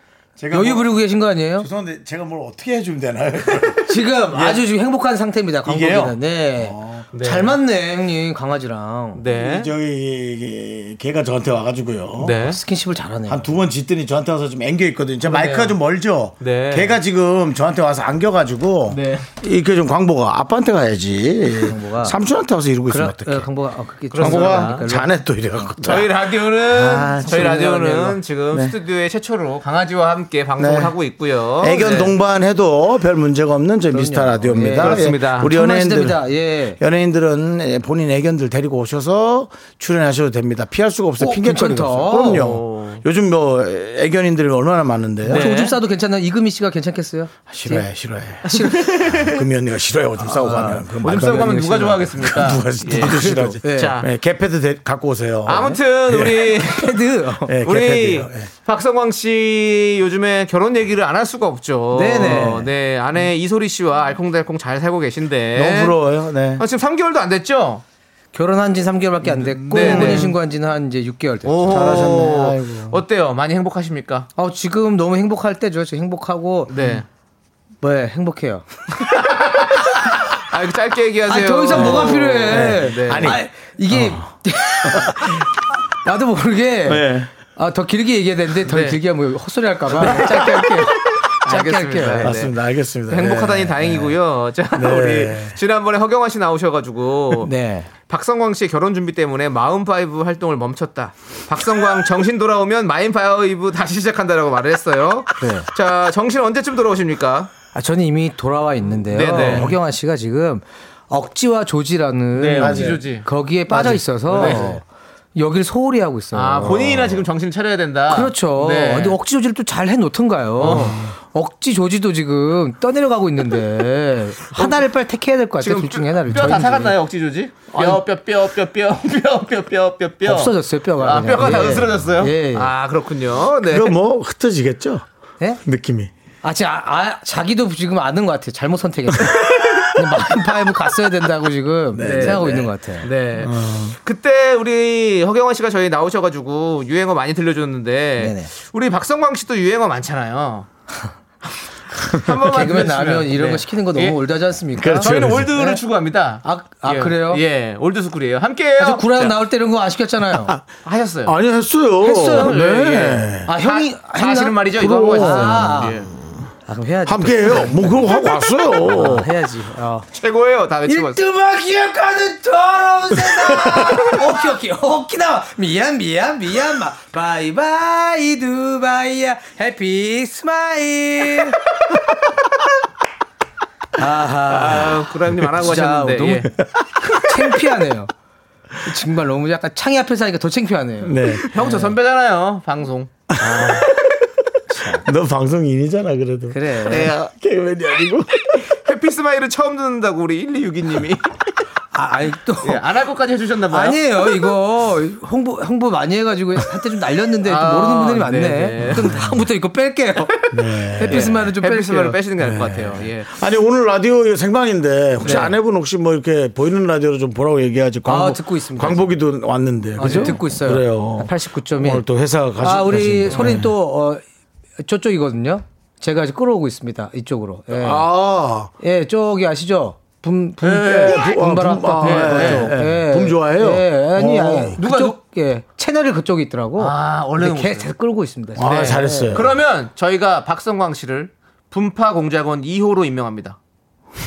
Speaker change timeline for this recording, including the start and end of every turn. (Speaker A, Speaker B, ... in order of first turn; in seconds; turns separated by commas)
Speaker A: 0.4-1.0, Speaker B: 0.5-1.7, Speaker A: 1.6-4.6, Speaker B: 3.9-9.2, Speaker A: 5.7-7.1, Speaker C: 7.1-7.5, Speaker C: 9.2-9.7, Speaker A: 9.3-12.4, Speaker C: 12.2-12.6, Speaker B: 12.4-13.5, Speaker A: 13.3-23.5, Speaker C: 15.2-15.8, Speaker C: 16.4-17.0, Speaker C: 18.9-19.3, Speaker B: 21.7-22.2, Speaker B: 22.9-25.7, Speaker C: 24.1-24.9, Speaker A: 24.2-27.6, Speaker C: 25.8-32.1, Speaker B: 26.8-28.2, Speaker A: 30.6-30.9, Speaker A: 31.6-36.2, Speaker B: 33.9-36.8, Speaker C: 34.8-35.5, Speaker A: 36.8-45.5, Speaker B: 41.2-42.5, Speaker C: 42.2-43.0, Speaker B: 45.3-47.9, Speaker C: 45.3-45.8, Speaker A: 47.5-56.4, Speaker B: 48.5-49.0, Speaker C: 48.5-49.4, Speaker B: 50.3-50.9, Speaker C: 50.6-54.1, Speaker B: 53.0-54.0, Speaker C: 55.5-57.0, Speaker B: 56.7-57.5, Speaker A: 57.5-58.5, Speaker C: 57.6-66.0, Speaker B: 61.9-62.7, Speaker A: 65.5-66.6, Speaker C: 66.6-67.8, Speaker B: 68.3-72.1, Speaker A: 69.4-70.3, Speaker C: 69.6-70.3, Speaker C: 71.5-74.3, Speaker A: 71.7-73.0, Speaker B: 74.4-76.7, Speaker C: 76.7-77.0, Speaker B: 77.8-78.7, Speaker C: 79.1-79.9, Speaker C: 80.4-83.4, Speaker B: 81.3-85.5, Speaker A: 81.8-84.3, Speaker A: 84.8-85.2, Speaker B: 86.0-92.5, Speaker A: 86.9-87.3, Speaker C: 88.7-89.0, Speaker A: 90.0-90.9, Speaker C: 91.5-92.5, Speaker A: 92.2-94.1, Speaker C: 93.1-97.5, Speaker A: 94.7-95.6, Speaker B: 97.4-97.9, Speaker C: 98.0-107.5, Speaker B: 105.4-105.7, Speaker B: 107.7-114.8, Speaker C: 109.1-109.8, Speaker C: 112.3-114.8, Speaker A: 112.6-113.0, Speaker A: 114.3-114.7, Speaker B: 115.3-117.2, Speaker C: 116.3-119.2, Speaker B: 118.1-127.0, Speaker C: 120.6-121.0, Speaker C: 125.6-133.9, Speaker B: 127.7-128.0, Speaker B: 130.2-132.7, Speaker A: 133.7-135.1, Speaker A: 135.6-136.1, Speaker B: 136.4-143.1, Speaker A: 141.9-142.7, Speaker C: 142.0-150.7, Speaker A: 143.4-144.0, Speaker B: 148.2-148.5, Speaker C: 152.1-154.2, Speaker B: 152.4-155.8, Speaker A: 154.8-155.5, Speaker C: 154.9-159.4, Speaker B: 156.4-157.4, Speaker B: 158.8-160.6, Speaker C: 160.8-161.4, Speaker A: 161.2-163.5, Speaker C: 162.0-166.1, Speaker B: 162.0-162.6, Speaker B: 163.4-166.0, Speaker A: 164.8-166.0, Speaker B: 166.7-170.1, Speaker A: 167.1-169.3, Speaker C: 170.1-171.2, Speaker B: 170.9-181.6, Speaker A: 173.6-174.2, Speaker B: 184.0-186.5, Speaker C: 184.5-186.5, Speaker B: 187.1-188.1, Speaker B: 188.8-191.9, Speaker A: 191.0-191.4, Speaker C: 191.5-193.1, Speaker A: 193.3-193.9, Speaker B: 193.4-193.9, Speaker B: 194.7-195.0, Speaker A: 195.0-198.7, Speaker B: 196.5-197.1, Speaker C: 196.9-197.2, Speaker C: 198.7-201.4, Speaker B: 201.9-202.8, Speaker C: 202.6-204.2, Speaker B: 203.7-212.2, Speaker C: 207.4-209.2, Speaker A: 210.5-211.4, Speaker C: 211.1-213.3, Speaker A: 212.4-223.7, Speaker B: 215.2-215.5, Speaker B: 218.1-219.0, Speaker B: 220.0-222.0, Speaker C: 220.0-220.4, Speaker B: 222.6-224.2, Speaker C: 223.3-223.6, Speaker B: 224.8-228.1, Speaker A: 227.7-228.7, Speaker B: 228.8-239.5, Speaker A: 230.6-234.8, Speaker C: 232.0-232.7, Speaker C: 234.8-235.2, Speaker C: 236.8-237.9, Speaker A: 238.6-239.5, Speaker C: 238.6-243.6